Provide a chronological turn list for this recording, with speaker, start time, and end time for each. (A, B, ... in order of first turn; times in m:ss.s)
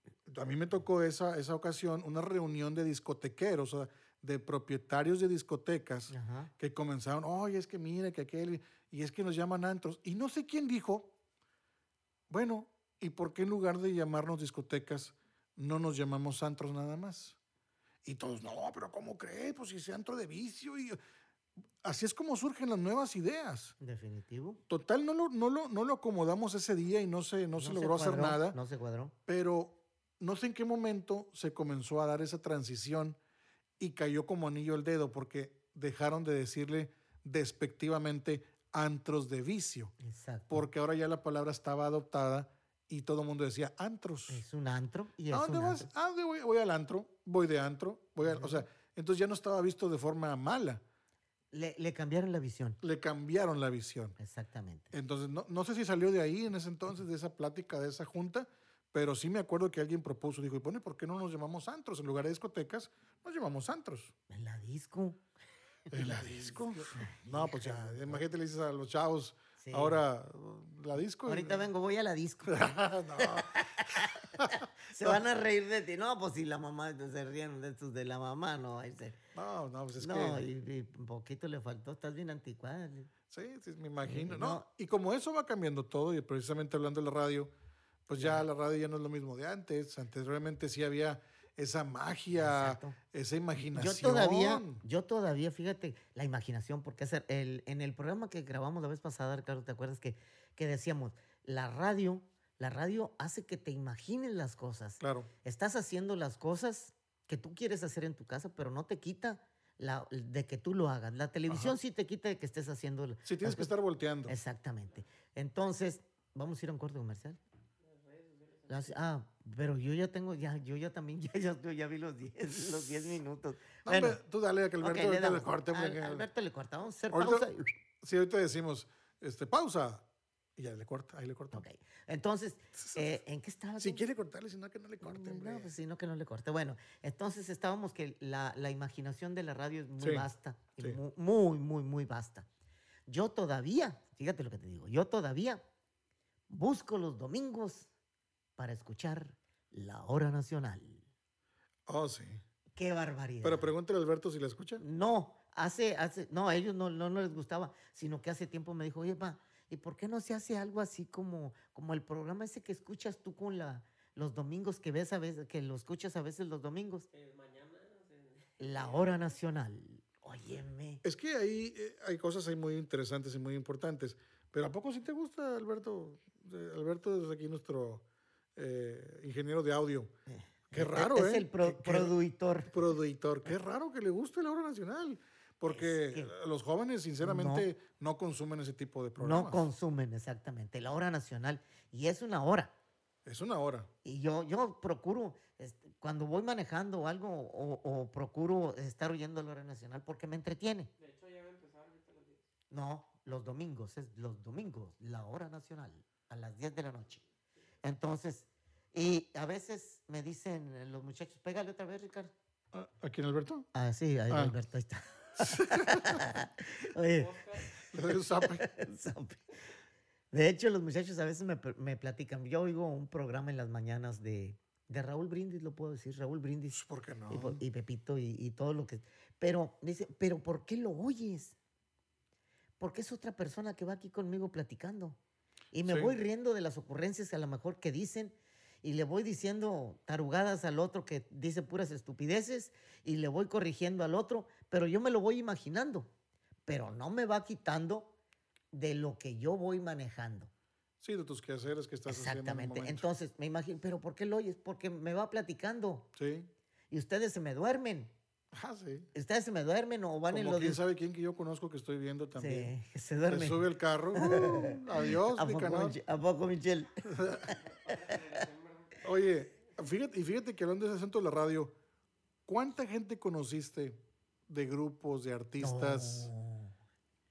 0:00.3-0:11.1 A
0:06.1-0:06.5 B
0:12.3-0:17.4 A
0:18.0-0:21.0 A
0:21.8-0:23.8 A
0:23.8-0:24.6 B
0:24.7-0:28.6 A
0:27.6-0:29.2 B
0:29.3-0:33.2 A
0:33.8-0:39.9 A
0:40.0-0:40.7 B
0:40.5-0:44.4 A
0:44.3-0:45.9 B
0:45.3-0:50.8 A
0:48.2-0:48.6 B
0:51.5-0:52.8 B
0:52.8-0:54.2 A
0:54.2-0:54.9 B
0:54.9-1:04.1 A
1:04.3-1:05.2 B
1:05.9-1:08.2 B
1:05.9-1:11.7 A
1:09.6-1:10.0 B
1:11.3-1:12.7 B
1:12.5-1:15.2 A
1:13.2-1:19.2 B
1:19.4-1:20.5 A
1:20.0-1:23.1 B
1:23.3-1:27.5 A
1:24.0-1:24.7 B
1:28.1-1:34.8 A
1:28.2-1:28.5 B
1:32.3-1:33.0 B
1:33.7-1:53.7 B
1:45.0-1:45.3 A
1:51.5-1:51.8 A
1:53.3-1:54.4 A
1:54.3-1:57.4 B
1:57.8-1:59.0 C
1:58.7-2:04.2 B
2:03.9-2:06.3 A
2:04.8-2:07.7 B
2:07.1-2:07.5 A
2:08.0-2:10.0 A
2:10.6-2:11.6 A
2:11.5-2:14.1 B
2:12.8-2:13.1 A
2:13.8-2:15.7 A
2:15.0-2:22.5 B
2:20.0-2:20.3 A
2:23.1-2:25.6 B
2:26.5-2:27.9 B
2:28.6-2:31.0 B
2:31.9-2:32.4 A
2:32.8-2:33.7 B
2:33.4-2:34.8 A
2:34.8-2:47.1 B
2:47.1-2:49.4 C
2:48.6-2:51.0 B
2:51.0-2:58.0 A
2:58.6-3:00.1 A
3:00.3-3:02.8 B
3:00.7-3:02.1 A
3:02.7-3:09.6 A
3:05.7-3:06.3 B
3:07.2-3:07.7 B
3:09.2-3:12.7 B
3:13.2-3:13.9 A
3:14.0-3:20.9 B
3:21.0-3:22.5 C
3:22.7-3:27.2 B
3:27.8-3:32.3 B
3:32.7-3:33.7 A
3:33.7-3:39.4 B
3:35.4-3:36.2 A
3:37.1-3:37.7 C
3:37.8-3:38.7 A
3:40.3-3:51.6 B
3:46.7-3:47.6 A
3:52.8-3:55.2 B
3:55.7-4:06.1 B
3:55.8-3:56.2 A
4:06.7-4:08.2 B
4:08.7-4:10.5 B
4:11.0-4:13.1 A
4:12.1-4:16.1 B
4:16.2-4:16.5 A
4:16.9-4:18.1 B
4:18.5-4:19.1 A
4:19.1-4:20.8 B
4:20.3-4:22.7 A
4:22.4-4:28.5 B
4:23.3-4:26.0 A
4:27.0-4:27.5 A
4:27.4-4:29.1 C
4:29.0-4:31.7 A
4:32.5-4:36.3 A
4:35.6-4:36.7 B